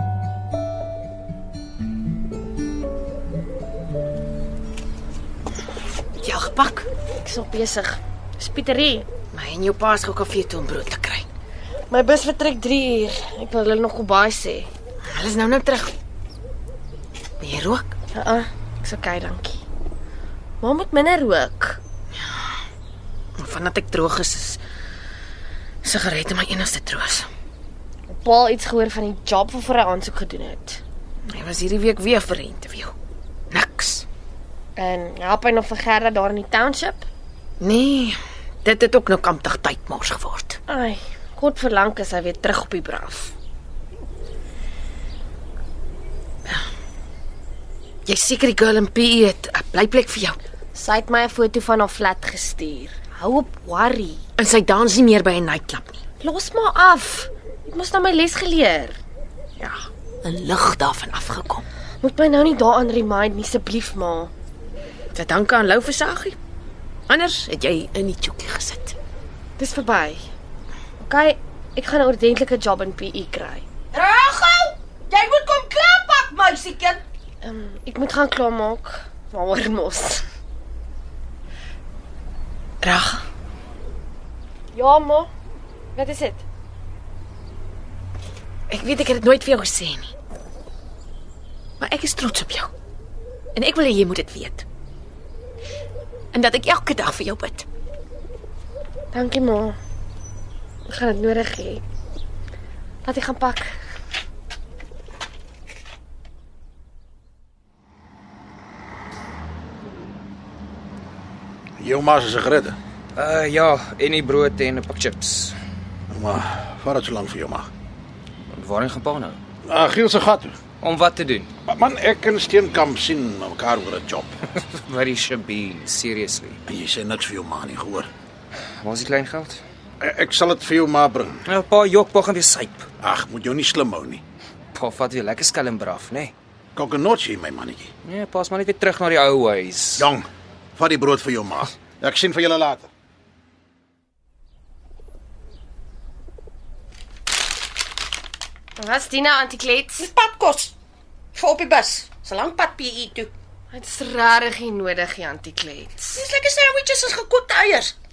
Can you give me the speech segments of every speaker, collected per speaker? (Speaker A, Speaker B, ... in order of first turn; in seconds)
Speaker A: 6.2-6.9, 9.3-11.3, 15.1-15.9, 17.4-17.9, 23.4-24.6, 25.8-27.3, 31.3-32.9, 33.5-34.0, 37.6-40.6, 48.0-50.4, 53.1-53.6, 54.4-56.0, 59.6-61.6, 65.1-66.4, 67.1-68.9, 82.8-83.2, 88.7-90.1, 91.8-92.7, 93.5-94.6, 96.3-97.7
Speaker B: 7.2-9.1, 11.9-14.7, 18.1-19.6, 20.6-21.8, 28.1-30.8, 34.8-37.1, 40.7-43.3, 50.7-54.2, 56.2-59.0, 62.0-64.3, 69.6-70.2, 71.0-73.7, 77.4-80.2, 84.7-85.3, 85.9-86.4, 99.1-99.8, 100.9-101.8, 103.0-103.7, 148.8-150.1, 153.7-156.2
Speaker C: 73.9-77.0, 150.0-150.7, 151.3-153.3, 156.1-157.9
Speaker D: 111.8-112.8, 116.1-117.7, 119.7-120.5, 121.7-124.3, 126.7-128.1, 130.0-131.4, 133.0-134.2, 136.7-137.9, 140.0-142.9
Speaker E: 113.2-115.5, 118.5-119.4, 120.8-121.5, 124.6-126.6, 128.8-129.6, 131.4-132.9, 134.7-136.3, 138.0-140.1